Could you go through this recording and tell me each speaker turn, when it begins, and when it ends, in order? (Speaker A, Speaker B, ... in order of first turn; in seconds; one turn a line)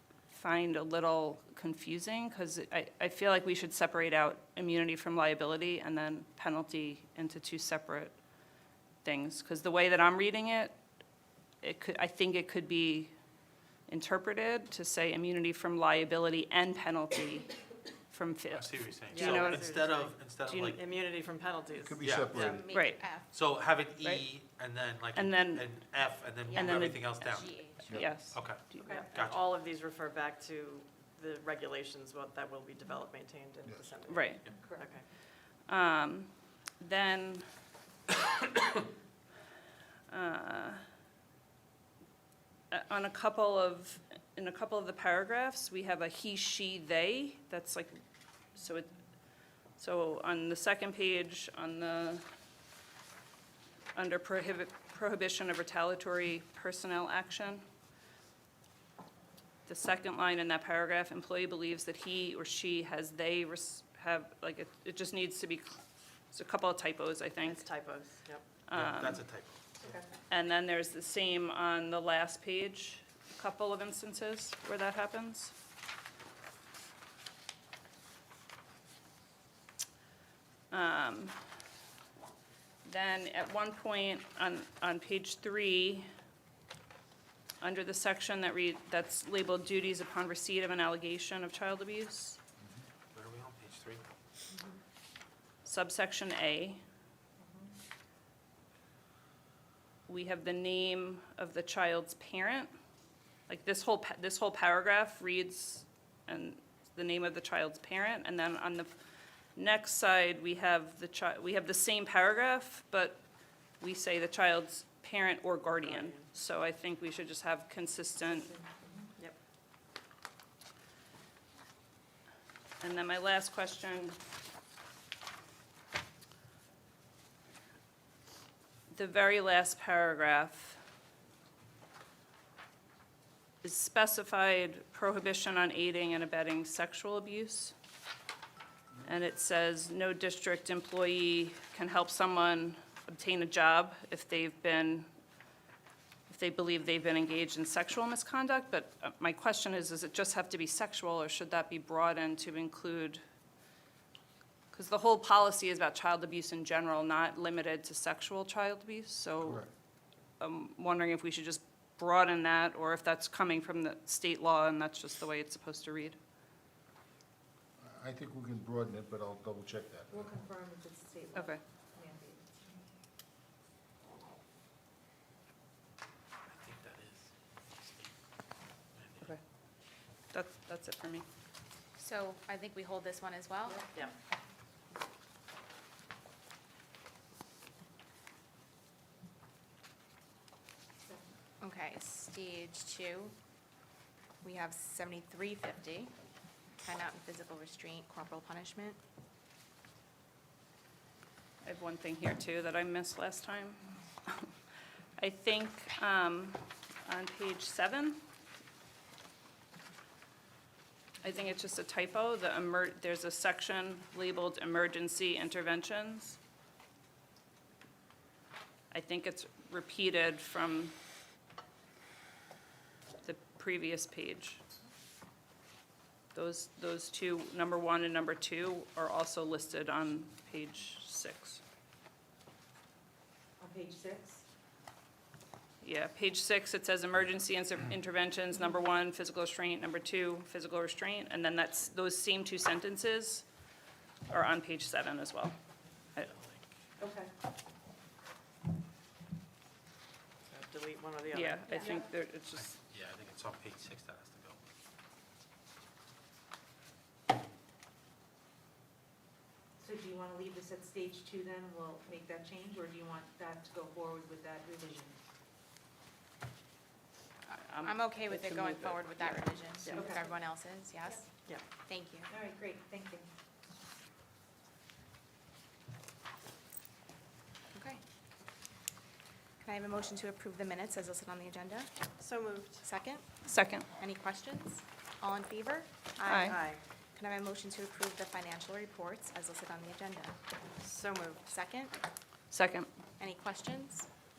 Speaker A: 0.3-8.2
Speaker A: 9.0-10.8
Speaker A: 11.6-13.1
Speaker A: 13.9-17.5
Speaker A: 18.1-19.6
Speaker B: 18.5-20.9
Speaker C: 19.1-22.7
Speaker A: 20.5-20.8
Speaker D: 21.8-22.6
Speaker B: 22.0-22.6
Speaker E: 22.4-23.3
Speaker A: 22.7-23.0
Speaker B: 23.3-29.4
Speaker A: 25.1-25.7
Speaker E: 26.5-28.1
Speaker A: 26.5-28.8
Speaker C: 28.8-35.0
Speaker A: 34.1-34.5
Speaker B: 34.4-34.7
Speaker A: 35.7-37.5
Speaker A: 40.1-40.8
Speaker A: 42.7-48.0
Speaker A: 48.5-48.9
Speaker A: 49.8-52.2
Speaker A: 54.0-57.6
Speaker A: 59.7-65.8
Speaker A: 66.3-67.7
Speaker C: 67.4-68.5
Speaker A: 68.7-69.2
Speaker B: 68.7-69.6
Speaker A: 70.3-75.5
Speaker A: 80.7-81.4
Speaker A: 82.8-86.1
Speaker A: 87.6-92.4
Speaker B: 93.1-94.0
Speaker A: 95.7-96.8
Speaker A: 100.1-102.7
Speaker A: 103.5-108.9
Speaker A: 109.6-113.2
Speaker A: 113.8-118.5
Speaker C: 115.8-116.3
Speaker A: 122.8-124.2
Speaker A: 128.9-130.8
Speaker A: 133.6-137.7
Speaker A: 139.1-145.1
Speaker A: 146.3-153.2
Speaker A: 154.7-159.6
Speaker D: 159.4-159.7
Speaker A: 160.4-166.2
Speaker D: 167.8-170.3
Speaker F: 170.5-171.4
Speaker F: 172.0-172.4
Speaker B: 176.5-178.1
Speaker B: 178.9-179.3
Speaker A: 180.3-181.3
Speaker E: 182.0-183.9
Speaker E: 191.6-193.3
Speaker E: 194.4-196.1
Speaker E: 196.8-199.0
Speaker A: 201.6-204.5
Speaker A: 205.2-208.2
Speaker A: 211.2-216.4
Speaker A: 218.9-220.9
Speaker A: 223.2-224.6
Speaker A: 226.3-231.6
Speaker F: 233.6-234.4
Speaker A: 235.8-243.5
Speaker A: 244.3-245.6
Speaker B: 246.2-246.6
Speaker C: 250.5-251.8
Speaker A: 251.3-252.8
Speaker B: 252.6-254.6
Speaker F: 259.8-265.2
Speaker A: 267.5-269.9
Speaker E: 267.8-271.3
Speaker E: 271.9-272.3
Speaker F: 272.5-273.3
Speaker E: 277.7-278.0
Speaker E: 279.6-281.9
Speaker C: 282.2-282.9
Speaker E: 282.8-283.2
Speaker A: 283.4-283.9
Speaker E: 284.0-290.4
Speaker A: 286.3-286.6
Speaker C: 286.5-286.8
Speaker C: 290.8-291.5
Speaker E: 291.5-292.0
Speaker A: 292.5-292.9
Speaker E: 293.2-294.1